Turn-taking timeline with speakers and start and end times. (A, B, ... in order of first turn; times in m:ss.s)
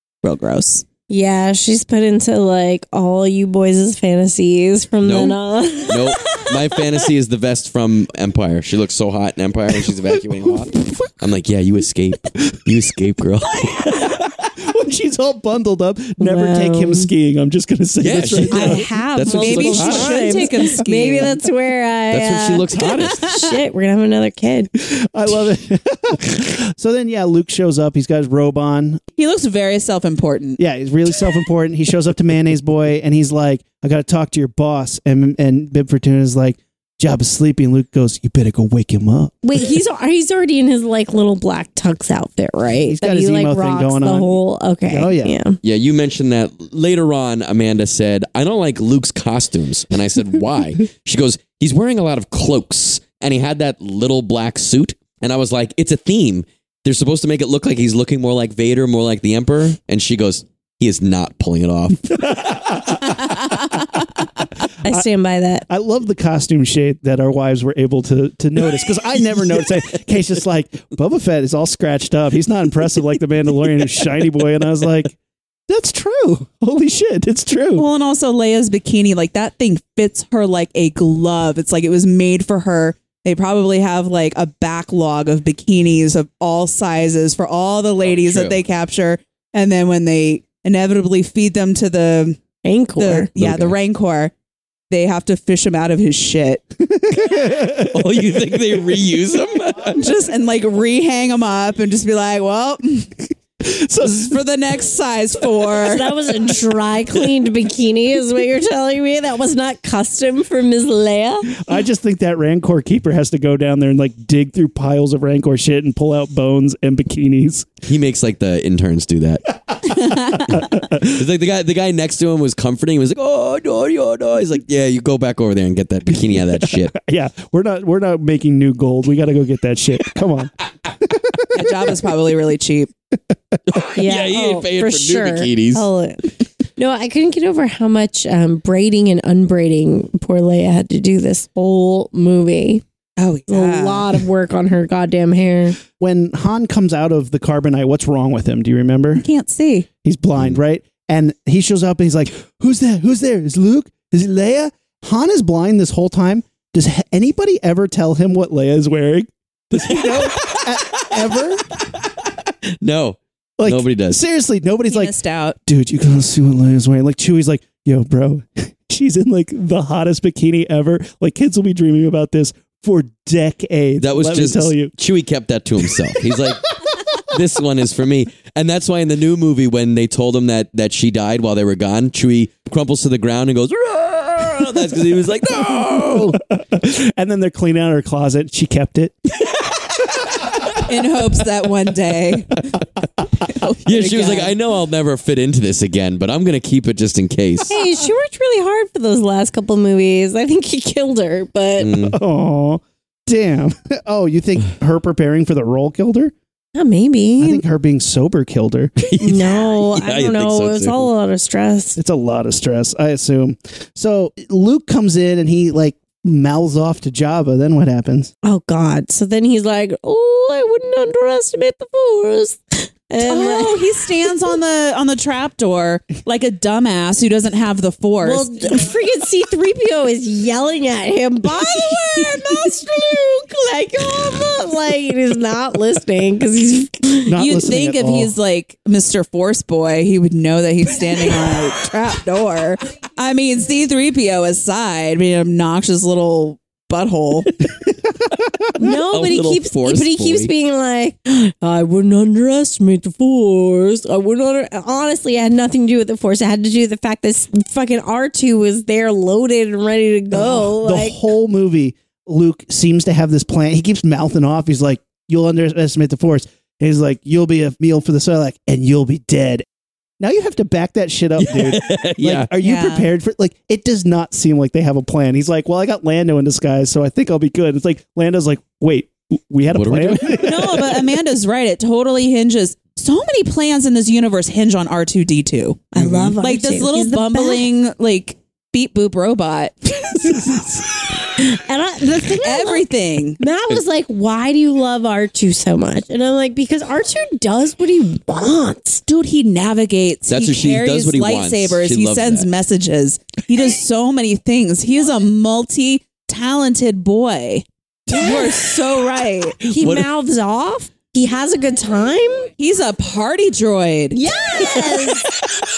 0:00.2-0:00.8 A
0:01.1-0:07.0 B
0:05.0-0:14.1 C
0:13.9-0:20.5 D
0:16.2-0:17.1 B
0:18.0-0:20.1 C
0:18.5-0:21.4 A
0:19.2-0:24.7 B
0:22.1-0:23.3 C
0:23.0-0:23.4 A
0:24.8-0:29.0 D
0:29.2-0:30.6 A
0:30.6-0:39.4 D
0:39.4-0:45.6 B
0:42.9-0:44.4 D
0:44.9-0:45.4 D
0:45.6-1:02.8 C
1:02.3-1:03.2 D
1:04.8-1:05.6 B
1:05.7-1:15.2 D
1:15.7-1:17.9 D
1:17.8-1:32.4 A
1:28.0-1:28.6 C
1:32.6-1:33.3 B
1:33.0-1:34.3 A
1:33.4-1:33.8 C
1:34.9-1:36.6 A
1:36.8-1:38.0 D
1:37.7-1:40.0 C
1:39.9-1:43.1 A
1:43.6-1:44.4 D
1:44.0-1:46.2 A
1:45.9-1:51.5 B
1:51.5-1:57.7 D
1:57.9-1:59.4 C
1:59.7-2:01.2 D
1:59.9-2:00.5 A
2:00.5-2:06.9 C
2:06.3-2:10.5 D
2:11.2-2:11.6 D
2:11.5-2:12.9 A
2:13.7-2:15.9 C
2:14.0-2:16.2 B
2:16.8-2:22.8 B
2:23.2-2:24.2 A
2:23.5-2:25.8 B
2:26.0-2:29.2 D
2:29.2-2:29.9 A
2:30.0-2:41.7 D
2:39.7-2:42.1 C
2:42.8-2:44.2 C
2:43.6-2:45.1 D
2:44.9-2:45.6 A
2:45.7-2:54.9 D
2:54.0-3:06.4 C
3:06.0-3:09.3 D
3:10.8-3:12.7 A
3:13.4-3:14.5 A
3:13.8-3:17.7 C
3:17.7-3:22.0 B
3:21.8-3:22.2 C
3:22.0-3:26.3 D
3:26.8-3:27.6 B
3:27.4-3:28.9 D
3:29.0-3:31.1 C
3:29.2-3:32.0 B
3:32.0-3:38.3 D
3:38.4-3:44.5 B
3:43.2-3:48.5 A
3:48.2-3:57.3 B
3:57.3-3:58.3 D
3:57.4-4:07.5 A
4:08.8-4:21.2 B
4:09.1-4:10.5 C
4:20.3-4:29.6 D
4:30.2-4:41.0 D
4:31.4-4:32.5 C
4:32.6-4:33.1 A
4:39.7-4:40.4 C
4:40.4-4:45.9 A
4:45.9-4:47.6 B
4:46.0-4:46.4 C
4:46.4-4:50.4 A
4:51.4-4:52.9 B
4:52.4-4:53.4 A
4:53.4-4:59.0 B
4:59.1-5:09.7 A
5:00.3-5:02.5 C
5:08.1-5:12.5 B
5:09.8-5:10.1 C
5:12.6-5:14.3 A
5:14.1-5:15.3 B